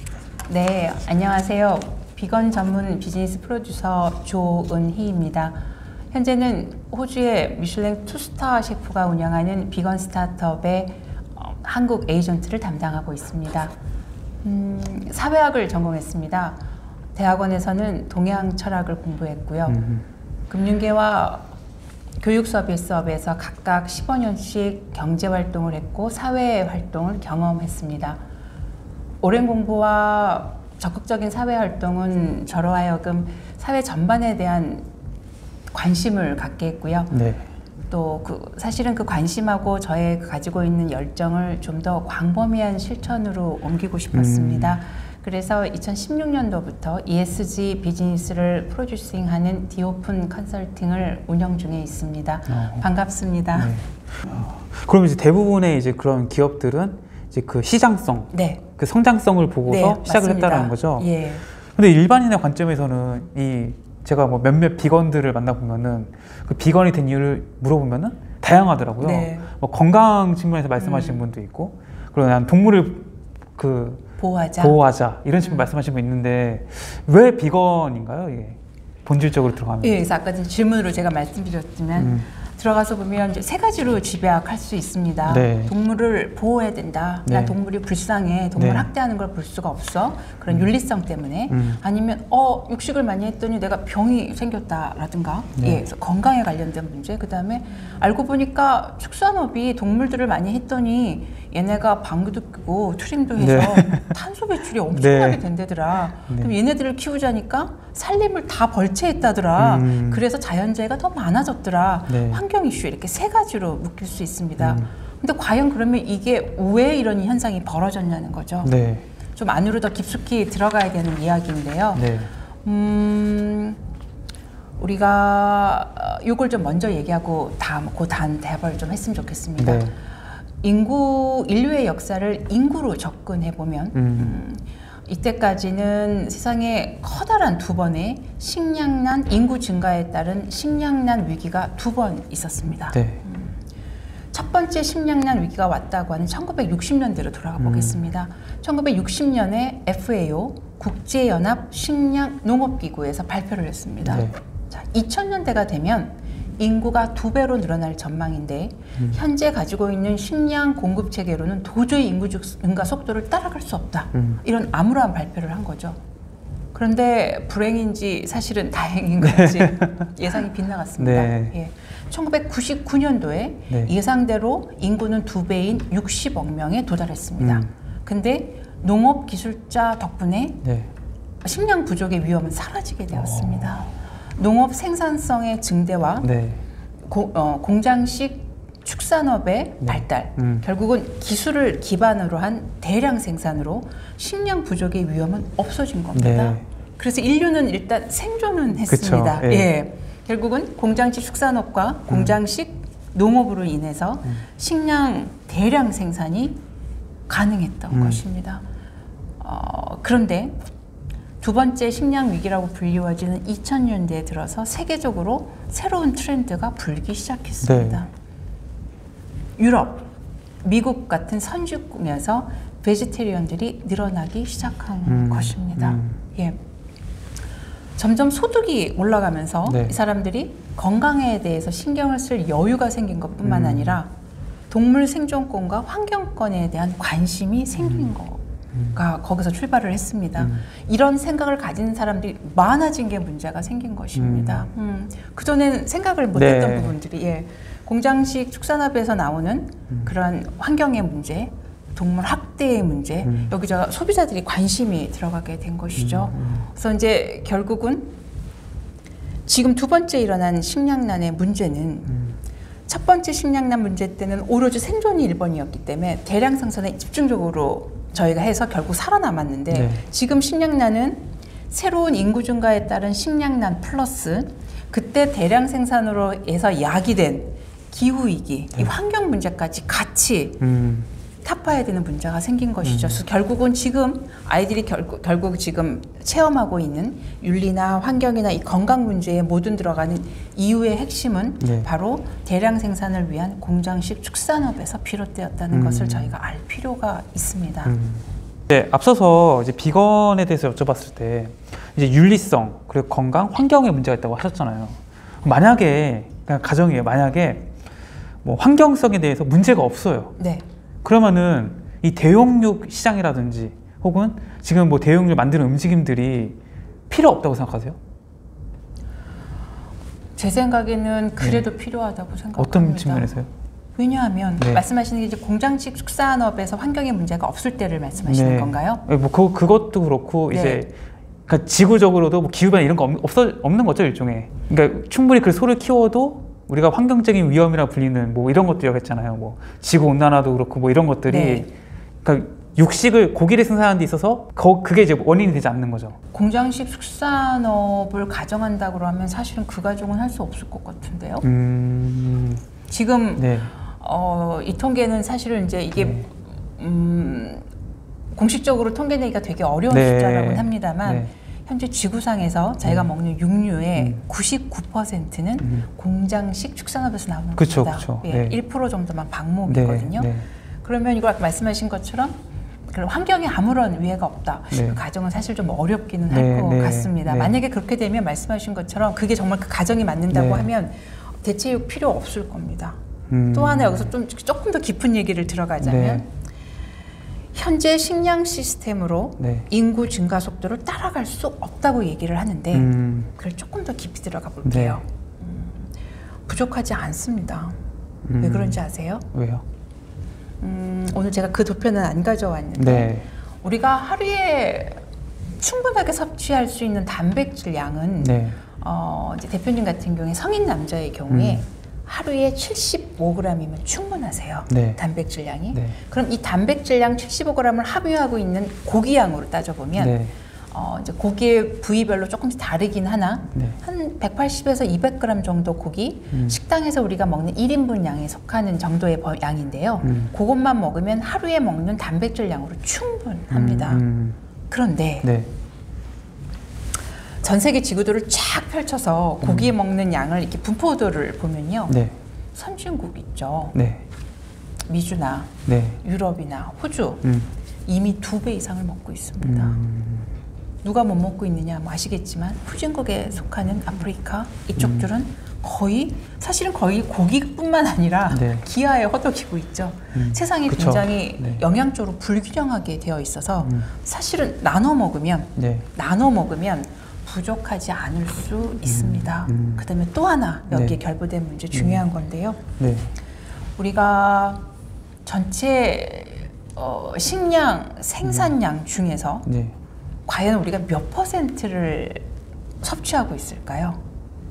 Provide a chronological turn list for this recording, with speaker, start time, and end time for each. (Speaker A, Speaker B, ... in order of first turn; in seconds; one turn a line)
Speaker A: 0.5-5.6
Speaker A: 6.1-13.7
Speaker A: 14.4-16.6
Speaker A: 17.1-19.9
Speaker B: 19.7-20.1
Speaker A: 20.5-21.5
Speaker A: 22.2-28.2
Speaker A: 29.2-34.9
Speaker A: 35.7-37.1
Speaker B: 37.1-37.5
Speaker A: 37.9-53.8
Speaker B: 44.1-44.8
Speaker B: 52.5-52.9
Speaker B: 53.6-61.1
Speaker A: 58.3-58.6
Speaker A: 59.6-61.4
Speaker B: 61.8-74.0
Speaker A: 69.0-69.5
Speaker A: 70.8-71.2
Speaker A: 74.2-74.8
Speaker B: 74.6-80.0
Speaker A: 79.8-118.7
Speaker B: 82.0-82.3
Speaker B: 85.3-85.7
Speaker B: 87.3-87.5
Speaker B: 88.6-88.9
Speaker B: 91.5-91.8
Speaker B: 95.6-95.8
Speaker B: 103.4-104.1
Speaker B: 104.9-105.4
Speaker B: 106.3-106.5
Speaker B: 109.6-110.2
Speaker B: 112.1-112.4
Speaker B: 114.6-114.9
Speaker B: 118.6-119.0
Speaker A: 119.3-122.1
Speaker B: 122.0-122.3
Speaker A: 122.6-123.8
Speaker A: 124.8-129.9
Speaker B: 129.6-129.9
Speaker A: 130.6-143.6
Speaker B: 133.9-134.3
Speaker B: 142.9-143.2
Speaker A: 144.3-166.0
Speaker B: 147.6-148.0
Speaker B: 154.1-154.4
Speaker A: 166.7-180.6
Speaker B: 169.2-170.1
Speaker B: 171.0-171.5
Speaker B: 177.4-177.7
Speaker B: 180.6-180.9
Speaker A: 181.4-186.3
Speaker B: 183.2-183.7
Speaker B: 186.2-186.6
Speaker A: 187.1-206.6
Speaker B: 189.8-190.7
Speaker B: 196.1-196.6
Speaker B: 198.9-199.7
Speaker B: 202.1-202.4
Speaker A: 207.3-208.7
Speaker B: 207.9-208.2
Speaker A: 209.4-210.7
Speaker A: 211.4-218.1
Speaker B: 217.6-218.0
Speaker A: 219.6-220.1
Speaker A: 220.6-226.6
Speaker B: 225.1-226.2
Speaker A: 228.0-234.1
Speaker B: 229.7-229.9
Speaker B: 233.4-234.0
Speaker A: 234.7-238.4
Speaker B: 237.8-238.1
Speaker A: 238.9-258.1
Speaker B: 244.2-244.7
Speaker B: 246.3-246.9
Speaker B: 253.3-253.5
Speaker B: 256.0-256.6
Speaker A: 259.5-262.3
Speaker A: 262.9-280.6
Speaker B: 269.7-270.0
Speaker B: 280.6-281.1
Speaker A: 281.4-298.0
Speaker B: 282.8-283.2
Speaker B: 291.6-291.9
Speaker B: 295.7-296.3
Speaker B: 297.9-307.7
Speaker B: 308.4-310.4
Speaker A: 310.4-310.6
Speaker B: 311.0-316.6
Speaker B: 317.1-318.0
Speaker A: 320.4-323.4
Speaker B: 322.6-323.5
Speaker A: 324.0-329.0
Speaker B: 324.6-324.8
Speaker B: 328.3-331.0
Speaker A: 330.5-330.8
Speaker B: 331.5-341.7
Speaker A: 341.3-341.7
Speaker B: 342.2-346.2
Speaker A: 346.3-351.5
Speaker B: 351.4-352.6
Speaker A: 352.9-357.6
Speaker B: 353.4-353.7
Speaker B: 356.0-356.2
Speaker A: 358.4-370.3
Speaker B: 359.9-361.3
Speaker B: 367.6-368.6
Speaker B: 369.6-370.5
Speaker A: 370.8-372.4
Speaker A: 372.9-383.0
Speaker B: 374.7-375.0
Speaker B: 376.3-377.6
Speaker B: 380.3-380.7
Speaker B: 383.3-384.1
Speaker A: 383.5-386.3
Speaker B: 385.8-386.2
Speaker A: 387.5-395.9
Speaker B: 389.4-389.7
Speaker B: 392.7-393.3
Speaker B: 394.6-395.0
Speaker A: 396.5-397.8
Speaker B: 398.3-398.8
Speaker A: 398.4-399.3
Speaker B: 399.3-399.6
Speaker A: 400.6-405.0
Speaker B: 402.8-403.3
Speaker A: 405.6-420.2
Speaker B: 408.2-408.6
Speaker B: 411.3-411.6
Speaker B: 414.7-415.0
Speaker B: 420.0-420.4
Speaker A: 420.7-434.0
Speaker B: 426.3-426.6
Speaker B: 430.0-430.3
Speaker B: 433.5-434.4
Speaker A: 434.7-435.3
Speaker B: 435.2-435.5
Speaker A: 437.4-442.0
Speaker B: 439.4-439.7
Speaker B: 441.9-442.1
Speaker A: 442.6-443.8
Speaker B: 443.7-444.1
Speaker A: 444.9-447.2
Speaker B: 445.7-446.0
Speaker B: 447.2-447.5
Speaker A: 447.9-449.8
Speaker B: 449.4-450.3
Speaker A: 450.8-472.6
Speaker B: 454.8-455.1
Speaker B: 458.3-458.6
Speaker B: 460.1-461.6
Speaker B: 465.6-465.9
Speaker B: 468.9-469.9
Speaker B: 470.7-471.0
Speaker B: 471.7-472.0
Speaker B: 472.8-473.1
Speaker A: 473.8-474.7
Speaker A: 475.2-479.5
Speaker B: 479.5-479.7
Speaker A: 480.3-482.3
Speaker A: 482.8-484.0